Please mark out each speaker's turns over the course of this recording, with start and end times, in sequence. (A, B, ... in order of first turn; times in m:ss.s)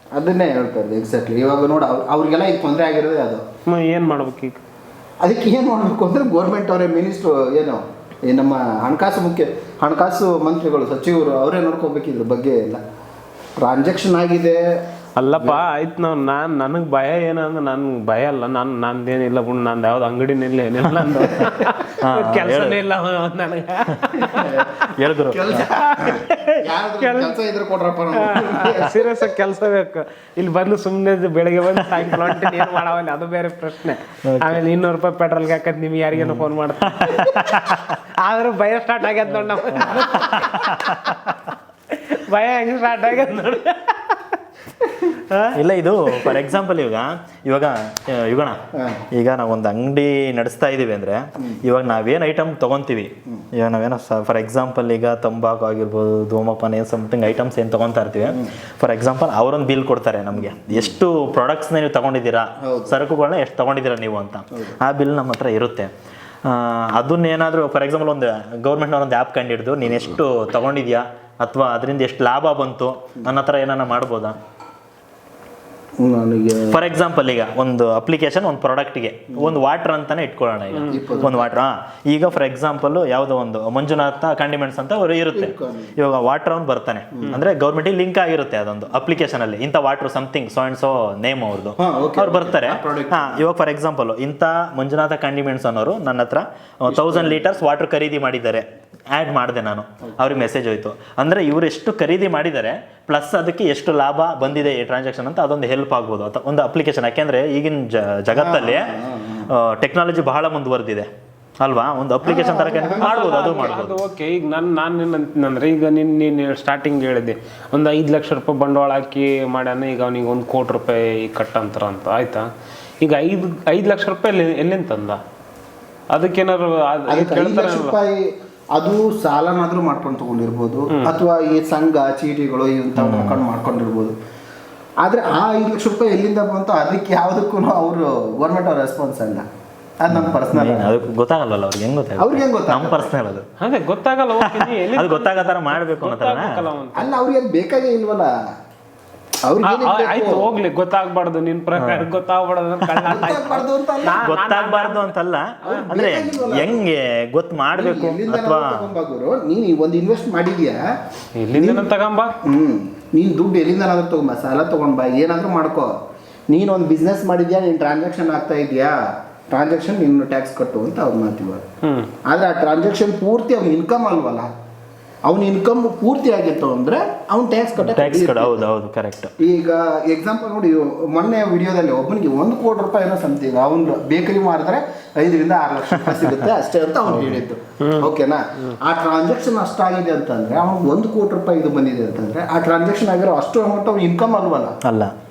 0:00.1-0:03.4 A
0:03.6-0:04.6 B
0:05.2-0:12.8 A
0:13.6-0:14.6 A
0:15.2-0:24.8 B
0:15.2-0:15.6 A
0:22.0-0:22.8 C
0:24.2-0:24.7 A
0:24.9-0:25.7 C
0:25.3-0:29.3 A
0:25.8-0:27.4 B
0:28.2-0:37.6 B
0:31.8-0:32.7 C
0:34.3-0:34.6 C
0:36.1-0:36.5 C
0:37.0-0:37.9 C
0:38.2-0:41.3 B
0:39.7-0:41.2 C
0:41.9-0:44.4 B
0:44.9-0:45.5 B
0:45.5-0:48.6 C
0:46.1-0:46.4 B
0:48.7-0:49.0 A
0:49.1-1:05.9 C
1:00.4-1:00.9 A
1:02.6-1:03.0 A
1:06.4-1:14.4 C
1:16.0-1:16.8 A
1:16.7-1:48.9 C
1:20.7-1:21.1 B
1:20.9-1:21.5 A
1:25.3-1:26.0 A
1:31.8-1:33.4 A
1:36.9-1:37.4 A
1:48.3-1:49.5 A
1:49.5-1:51.1 C
1:51.6-1:54.0 C
1:52.2-1:53.8 A
1:52.7-2:02.5 B
2:03.0-2:05.2 B
2:06.1-2:08.0 B
2:07.1-2:14.1 A
2:10.9-2:11.2 B
2:13.0-2:13.4 C
2:15.0-2:19.4 A
2:20.0-2:21.0 A
2:20.1-2:23.4 C
2:22.2-2:23.1 A
2:23.6-2:27.1 B
2:24.4-2:26.6 C
2:26.9-2:28.3 A
2:29.4-2:30.5 A
2:29.6-2:35.1 B
2:31.8-2:32.1 C
2:32.8-2:33.3 C
2:33.1-2:34.3 A
2:34.2-2:38.8 C
2:35.6-2:35.9 B
2:35.9-2:36.8 A
2:37.7-2:40.8 A
2:41.4-2:42.3 B
2:41.5-2:41.8 A
2:42.4-2:45.9 A
2:46.5-2:49.0 A
2:49.5-2:51.6 A
2:51.8-2:52.1 B
2:52.2-2:54.5 A
2:55.2-2:58.6 A
2:57.8-2:59.3 C
2:59.4-3:14.8 A
3:06.1-3:06.5 C
3:07.1-3:07.4 C
3:07.8-3:08.1 B
3:14.8-3:15.1 C